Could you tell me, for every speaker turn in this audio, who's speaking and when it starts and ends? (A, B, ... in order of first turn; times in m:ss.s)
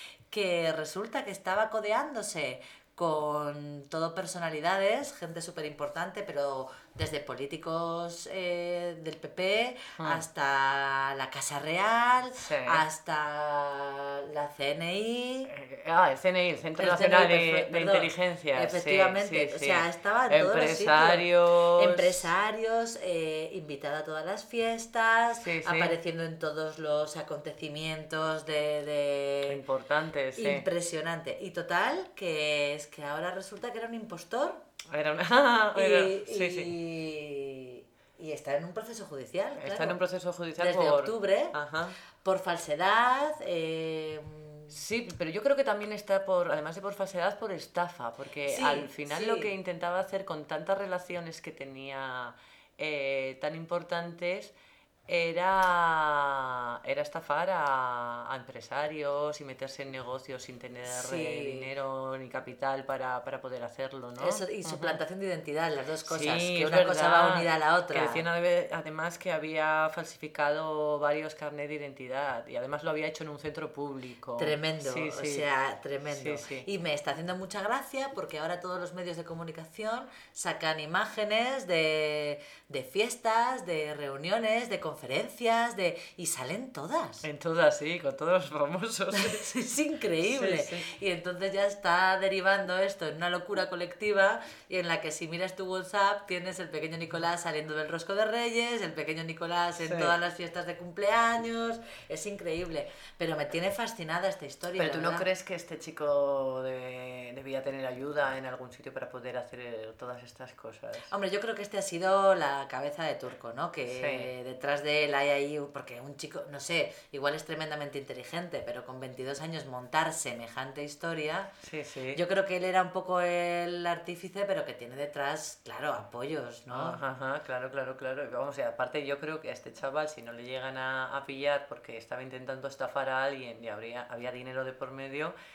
0:00.3-0:15.5 A
0:10.0-0:10.2 B
0:12.3-0:12.8 B
0:15.5-0:22.3 B
0:16.8-0:29.6 A
0:25.4-0:26.0 B
0:29.5-0:30.7 B
0:30.4-0:34.6 A
0:34.9-0:36.7 B
0:35.7-0:40.0 A
0:39.6-0:42.0 B
0:40.6-0:41.6 A
0:42.2-0:44.8 A
0:44.7-0:54.5 B
0:48.4-0:49.5 A
0:55.1-1:05.0 B
1:00.8-1:01.7 A
1:04.2-1:08.2 A
1:06.0-1:15.4 B
1:14.4-1:27.2 A
1:16.1-1:16.6 B
1:27.2-1:29.5 B
1:29.1-1:45.3 A
1:30.2-1:30.9 B
1:39.8-1:40.1 B
1:44.8-1:51.1 B
1:51.1-2:01.5 A
1:53.9-1:54.3 B
2:01.6-2:02.2 B
2:02.1-2:07.0 A
2:06.7-2:15.3 B